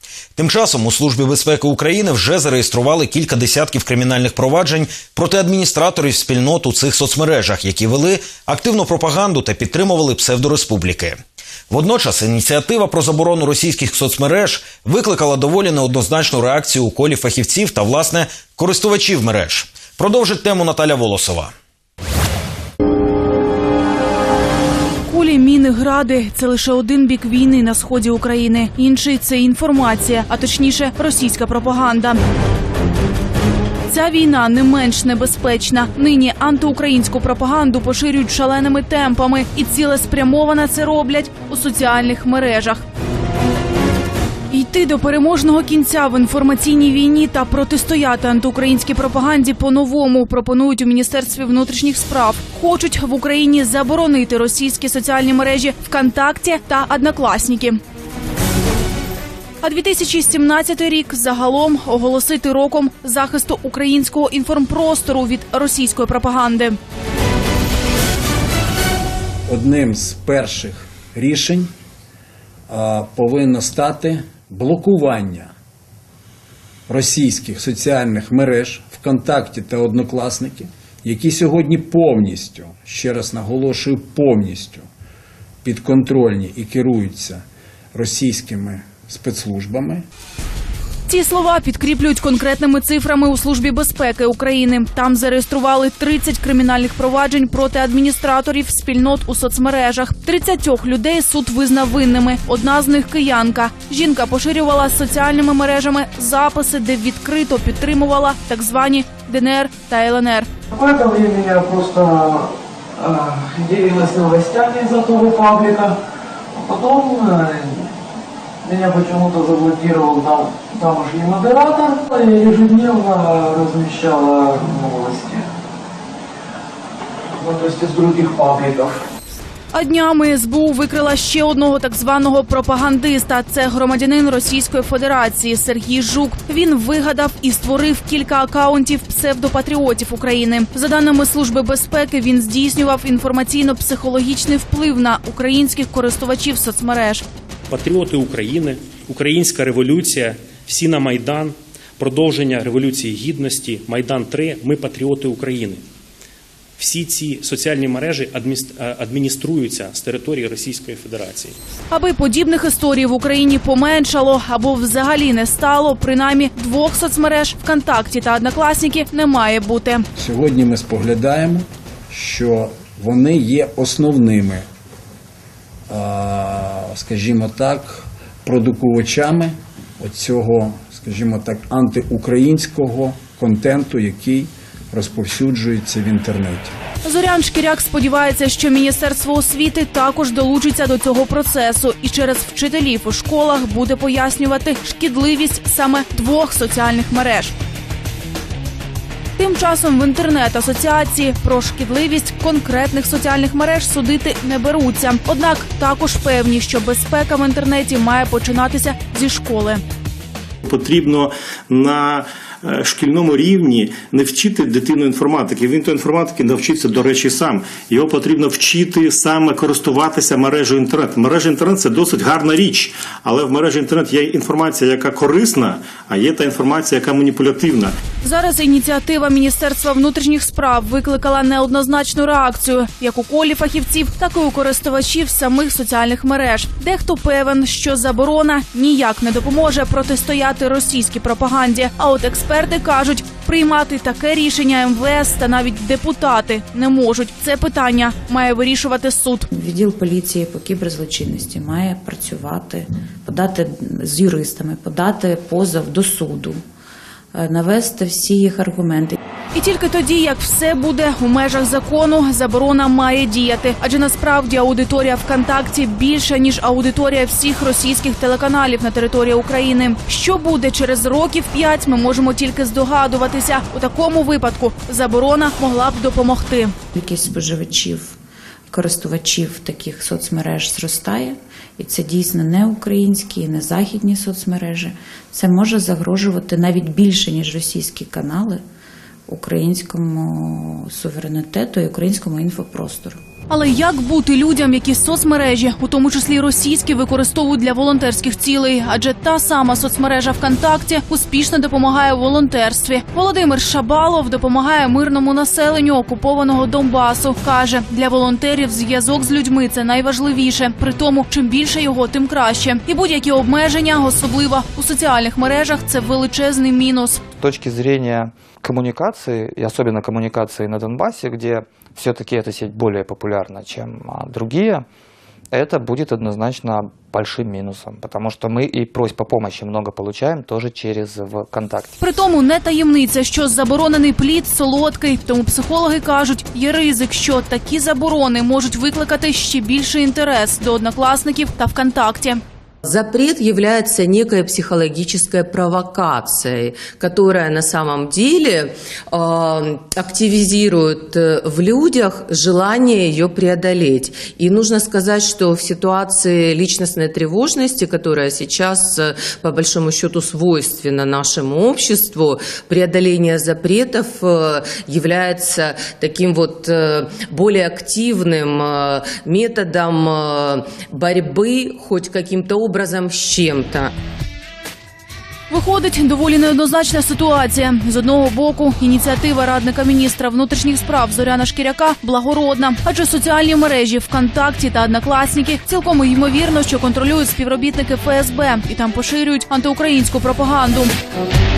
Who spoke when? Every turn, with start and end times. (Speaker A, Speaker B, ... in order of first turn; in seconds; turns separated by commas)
Speaker A: 0.4-11.2, Speaker A: 11.7-21.5, Speaker B: 25.1-32.2, Speaker B: 33.9-42.8, Speaker B: 44.5-57.8, Speaker B: 59.6-66.8, Speaker C: 69.5-71.7, Speaker C: 72.7-75.5, Speaker C: 76.9-84.9, Speaker C: 85.6-90.0, Speaker B: 91.1-110.5, Speaker D: 110.7-116.0, Speaker D: 116.5-117.9, Speaker D: 118.6-125.5, Speaker D: 127.4-129.0, Speaker B: 129.7-147.2, Speaker E: 147.7-155.8, Speaker E: 156.8-161.6, Speaker B: 161.9-170.1, Speaker C: 170.2-174.7, Speaker C: 175.9-186.7, Speaker B: 187.0-197.5, Speaker B: 199.4-209.8, Speaker F: 210.7-228.0, Speaker B: 228.2-249.5, Speaker G: 249.5-256.6, Speaker G: 257.4-259.2, Speaker B: 259.5-276.8, Speaker G: 276.9-278.2, Speaker G: 278.7-288.6, Speaker G: 289.3-293.2, Speaker B: 293.5-317.2, Speaker H: 317.4-324.9, Speaker H: 325.5-331.9, Speaker B: 332.0-342.4, Speaker I: 342.9-373.9, Speaker B: 375.5-390.9